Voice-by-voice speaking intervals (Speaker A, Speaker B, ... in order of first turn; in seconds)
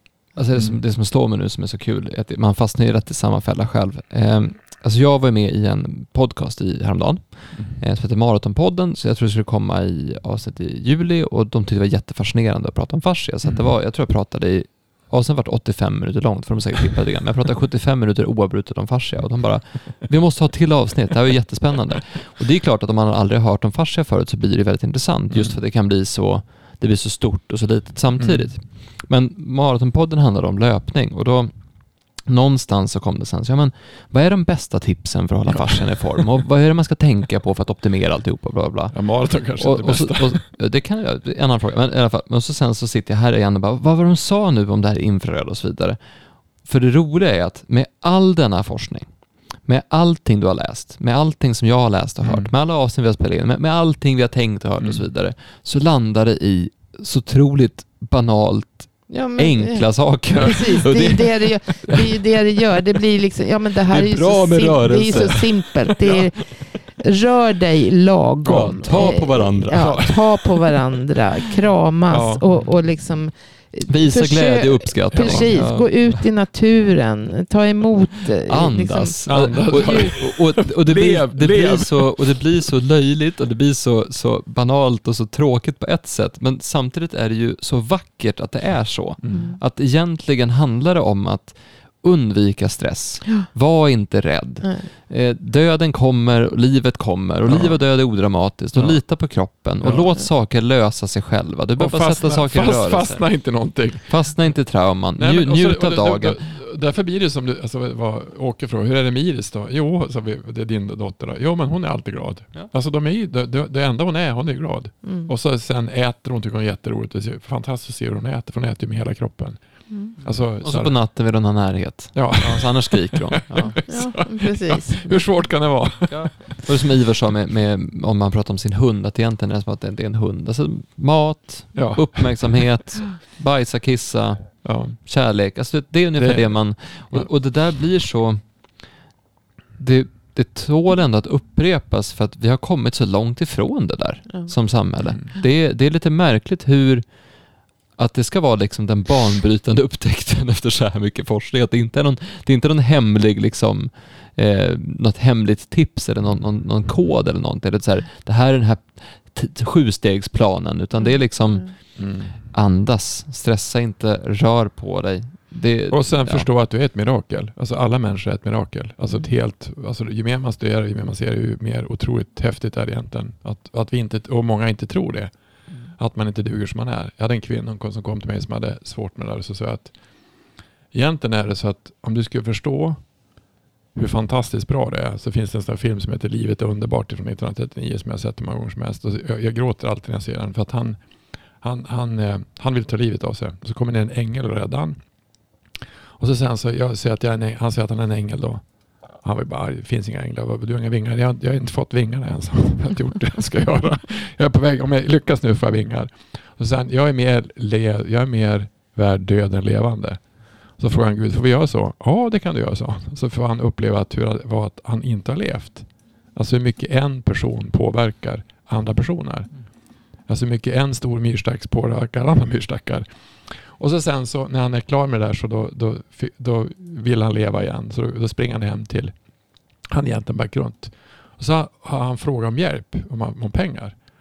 Speaker A: 0.3-31.5, 32.3-39.0, 39.6-46.0, 46.6-49.1, 49.6-62.0, 63.9-65.6, 68.5-70.0, 73.9-75.7, 78.5-103.4, 104.0-106.4, 120.6-123.8, 126.1-138.4, 139.8-147.1, 148.0-162.0, 162.5-166.5
Speaker B: 0.6-0.8, 25.3-25.6, 28.2-28.5, 35.5-35.8, 38.9-40.4, 52.2-52.5, 68.5-70.8, 72.1-72.6, 75.1-76.2, 79.3-82.4, 89.2-89.5, 97.5-97.9, 98.7-99.0, 99.8-100.1, 101.8-104.5, 105.2-120.9, 122.1-126.6, 131.8-132.7, 134.6-135.0, 136.2-137.3, 162.0-162.4, 165.9-175.3, 175.9-179.9, 180.9-183.0, 183.9-191.0, 191.6-195.0, 196.2-210.2, 210.8-219.6, 220.2-229.2, 229.8-234.0
Speaker C: 59.1-80.1, 89.3-89.6, 94.6-94.9, 115.0-115.3, 119.9-120.2, 123.9-125.3, 161.0-161.8